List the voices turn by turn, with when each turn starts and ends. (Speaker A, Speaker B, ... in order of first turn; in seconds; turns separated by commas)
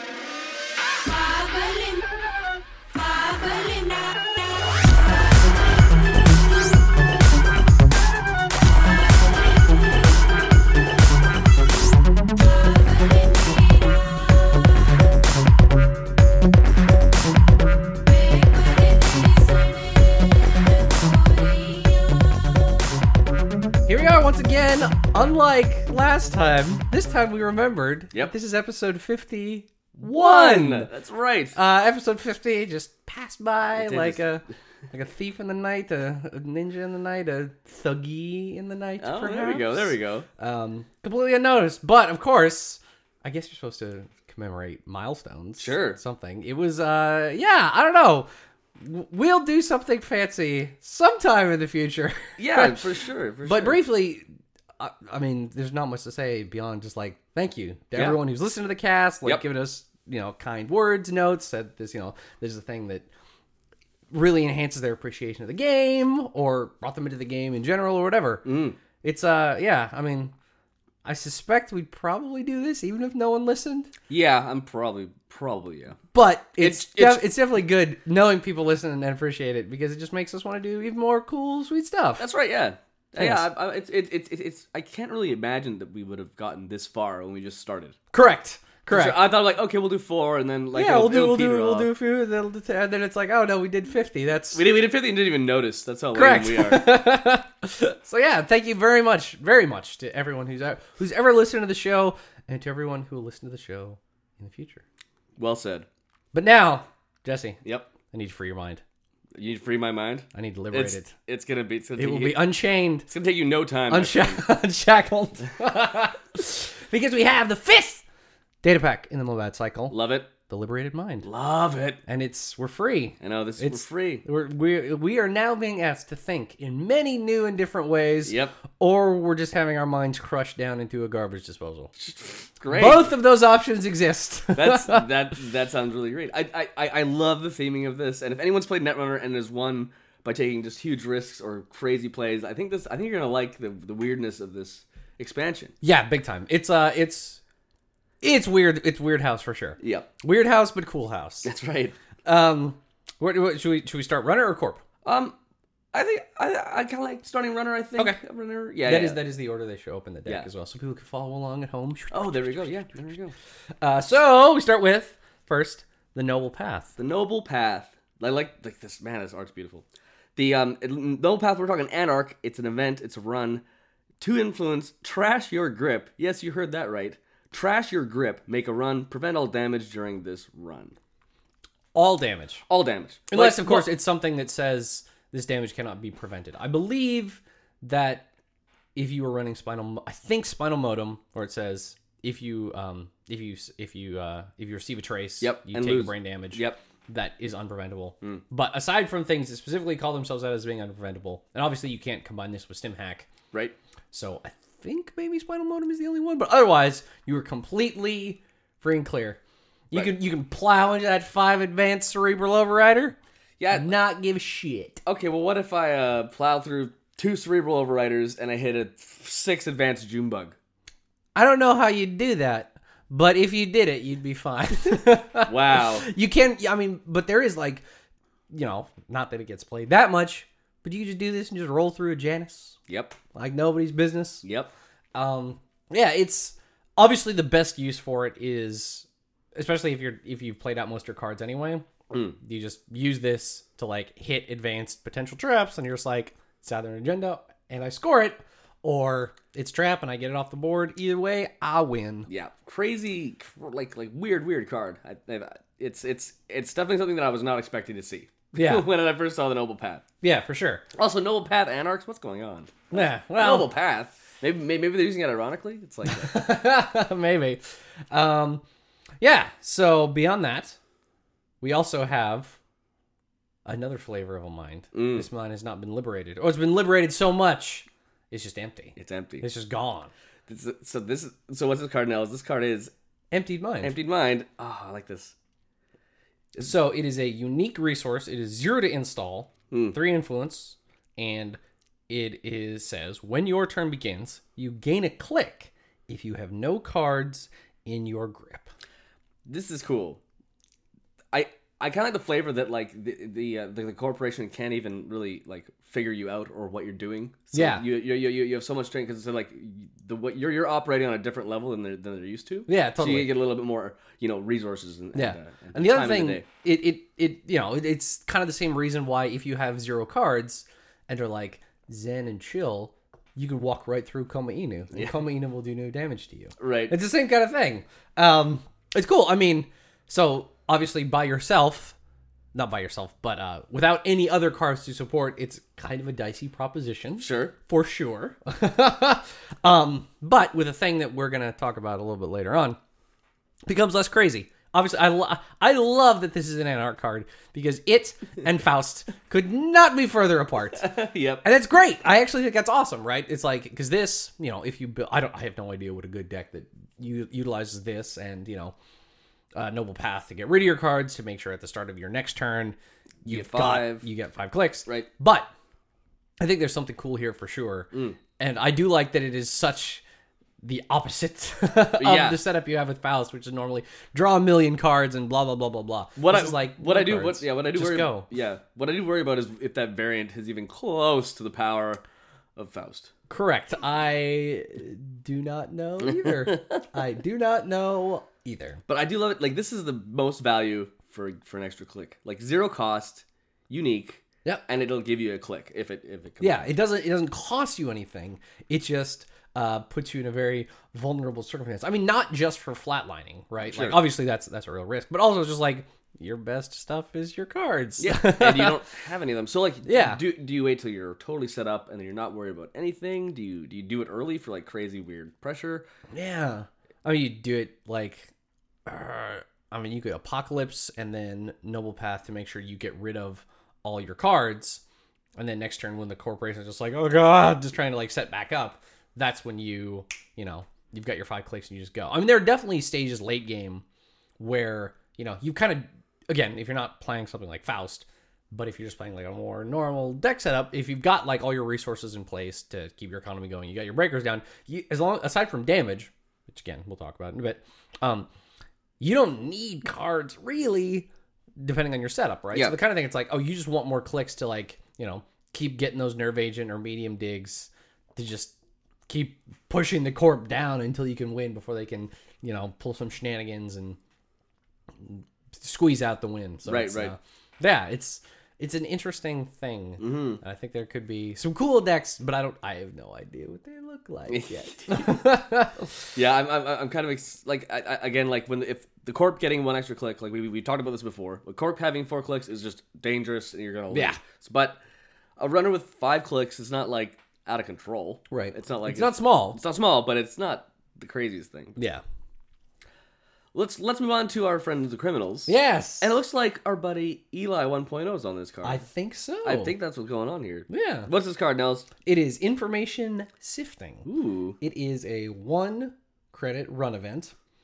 Speaker A: 1.1-2.1, Speaker A: 2.9-4.3, Speaker A: 5.2-6.3, Speaker A: 8.8-10.3, Speaker A: 12.4-14.9, Speaker A: 18.0-22.3, Speaker B: 23.9-30.9, Speaker C: 30.0-31.6, Speaker B: 31.5-48.3, Speaker C: 33.8-34.2, Speaker C: 39.0-40.3, Speaker C: 45.6-46.0, Speaker B: 48.8-52.9, Speaker C: 52.4-53.8, Speaker B: 53.5-54.2, Speaker B: 54.8-63.1, Speaker B: 64.1-68.4, Speaker C: 68.5-68.8, Speaker B: 69.0-70.3, Speaker B: 71.0-73.9, Speaker C: 74.1-76.0, Speaker B: 76.1-82.2, Speaker C: 76.6-77.3, Speaker C: 82.2-88.0, Speaker B: 83.2-83.5, Speaker B: 88.1-89.3, Speaker C: 88.9-91.9, Speaker B: 90.7-94.6, Speaker C: 94.5-96.9, Speaker B: 96.1-104.8, Speaker C: 105.4-105.9, Speaker B: 106.3-108.8, Speaker C: 107.6-107.9, Speaker C: 109.3-112.4, Speaker B: 110.3-111.1, Speaker B: 112.0-113.1, Speaker C: 113.1-114.4, Speaker B: 113.9-118.0, Speaker B: 118.6-120.0, Speaker C: 119.9-120.3, Speaker B: 120.5-121.3, Speaker C: 121.2-122.0, Speaker B: 122.1-131.9, Speaker C: 123.2-124.2, Speaker C: 128.2-128.6, Speaker C: 132.0-133.1, Speaker B: 132.7-135.1, Speaker C: 134.6-145.8, Speaker B: 145.8-147.4, Speaker B: 148.2-151.5, Speaker C: 149.8-150.1, Speaker C: 151.4-152.0, Speaker B: 152.2-154.8, Speaker C: 155.1-155.4, Speaker C: 155.9-159.2, Speaker B: 158.8-162.5, Speaker C: 162.1-163.3, Speaker B: 163.8-166.9, Speaker C: 167.0-173.6, Speaker C: 174.2-181.0, Speaker B: 181.9-182.6, Speaker C: 182.7-183.9, Speaker B: 183.3-188.3, Speaker B: 188.9-203.3, Speaker C: 195.4-196.8, Speaker B: 204.1-209.4, Speaker B: 209.9-213.2, Speaker C: 213.6-213.9, Speaker B: 213.7-215.0, Speaker C: 215.1-220.6, Speaker B: 221.3-227.8, Speaker C: 225.5-226.1, Speaker B: 228.5-232.8, Speaker C: 232.9-233.2, Speaker B: 233.3-234.4, Speaker C: 234.4-234.7, Speaker B: 235.2-241.9, Speaker C: 242.1-242.4, Speaker B: 242.4-252.3, Speaker C: 252.3-260.0, Speaker B: 258.5-258.9, Speaker B: 260.2-260.9, Speaker C: 260.9-266.5, Speaker B: 262.9-263.7, Speaker B: 266.1-267.6, Speaker B: 268.1-268.6, Speaker B: 269.2-270.8, Speaker B: 271.6-272.6, Speaker B: 273.7-280.1, Speaker C: 274.9-275.3, Speaker C: 279.0-279.5, Speaker C: 280.5-282.9, Speaker B: 283.3-283.9, Speaker C: 283.8-285.4, Speaker B: 286.6-298.7, Speaker C: 289.7-290.0, Speaker C: 299.5-300.2, Speaker C: 301.3-316.4, Speaker B: 307.5-307.9, Speaker B: 312.7-313.4, Speaker B: 315.1-332.0, Speaker C: 326.6-326.9, Speaker B: 332.5-342.8, Speaker C: 337.2-337.5, Speaker B: 343.7-350.9, Speaker C: 350.8-351.4, Speaker B: 351.4-358.8, Speaker B: 359.6-365.5, Speaker C: 363.3-364.1, Speaker B: 366.4-370.0, Speaker C: 367.9-368.2, Speaker B: 370.6-378.3, Speaker C: 372.0-372.4, Speaker C: 376.2-382.0, Speaker C: 382.6-383.1, Speaker B: 383.3-388.8, Speaker C: 386.1-386.7, Speaker C: 388.9-396.7, Speaker B: 396.4-408.8, Speaker C: 403.6-404.0, Speaker C: 408.0-415.9, Speaker B: 409.9-410.2, Speaker B: 416.1-418.3, Speaker B: 418.9-424.8, Speaker B: 425.4-433.8, Speaker B: 434.4-448.3, Speaker B: 449.0-451.1, Speaker B: 451.6-458.5, Speaker B: 459.1-464.0, Speaker B: 465.0-476.1, Speaker C: 466.7-467.1, Speaker C: 470.0-470.4, Speaker C: 474.3-475.3, Speaker C: 476.1-484.8, Speaker B: 483.9-484.2, Speaker C: 485.4-491.8, Speaker B: 488.3-489.6, Speaker B: 491.8-492.0, Speaker C: 493.5-498.9, Speaker B: 495.5-496.1, Speaker B: 498.6-499.8, Speaker C: 499.4-501.9, Speaker B: 500.7-501.1, Speaker B: 502.0-504.1, Speaker C: 504.1-504.6, Speaker B: 504.6-507.3